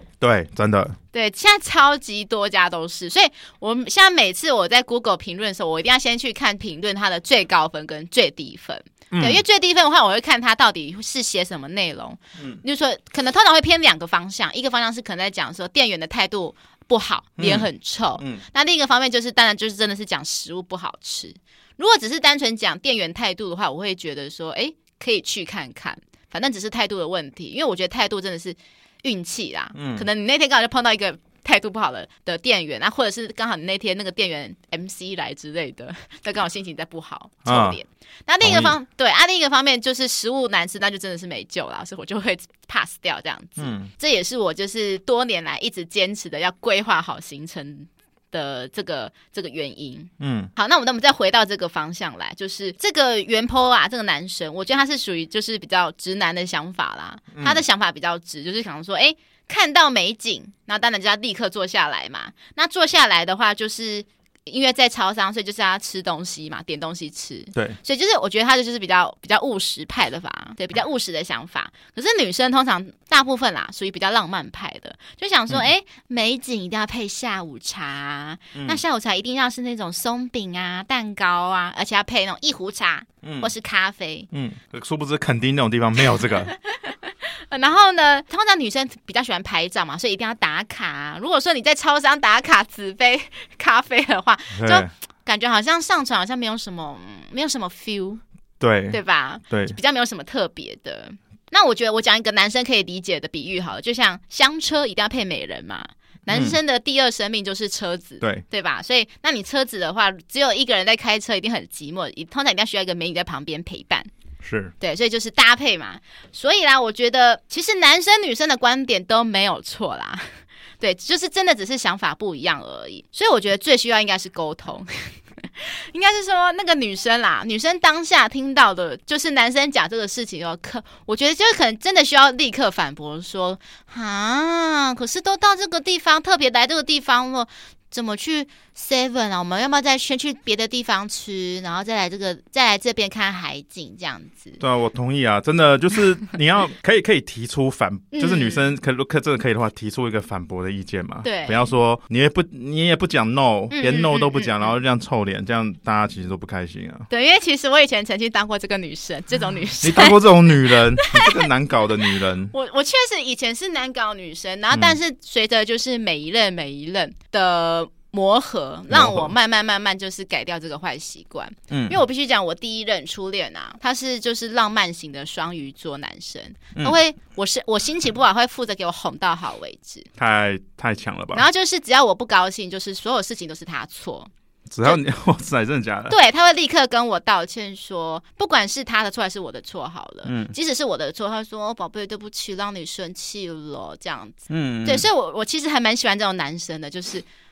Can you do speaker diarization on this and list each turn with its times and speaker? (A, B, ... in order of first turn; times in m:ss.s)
0:00.2-0:01.0 A
0:01.1-1:24.3 B
0:09.1-0:09.4 A
0:17.4-0:18.4 A
0:29.7-0:30.0 A
0:37.4-0:37.8 A
0:38.4-0:38.8 A
0:43.6-0:43.9 A
0:50.2-0:50.5 A
0:57.3-0:57.6 A
1:18.5-1:18.8 A
1:23.2-1:23.5 A
1:24.3-1:26.5 A
1:26.5-1:38.2 B
1:34.5-1:34.9 A
1:38.6-1:39.0 A
1:38.9-1:54.1 B
1:39.5-1:39.8 A
1:46.3-1:46.6 A
1:54.4-1:54.7 A
1:54.8-2:00.3 B
2:00.8-2:24.6 B
2:24.6-2:37.0 A
2:28.1-2:28.6 B
2:31.2-2:31.7 B
2:33.7-2:34.7 B
2:37.1-2:40.2 B
2:39.8-2:42.5 A
2:41.0-2:41.4 B
2:42.5-3:00.1 B
2:44.7-2:45.0 A
2:48.9-2:49.3 A
2:51.7-2:52.0 A
3:00.2-3:01.4 A
3:01.3-3:04.3 B
3:04.7-3:06.1 A
3:06.1-3:17.2 B
3:10.2-3:10.5 A
3:14.5-3:15.0 A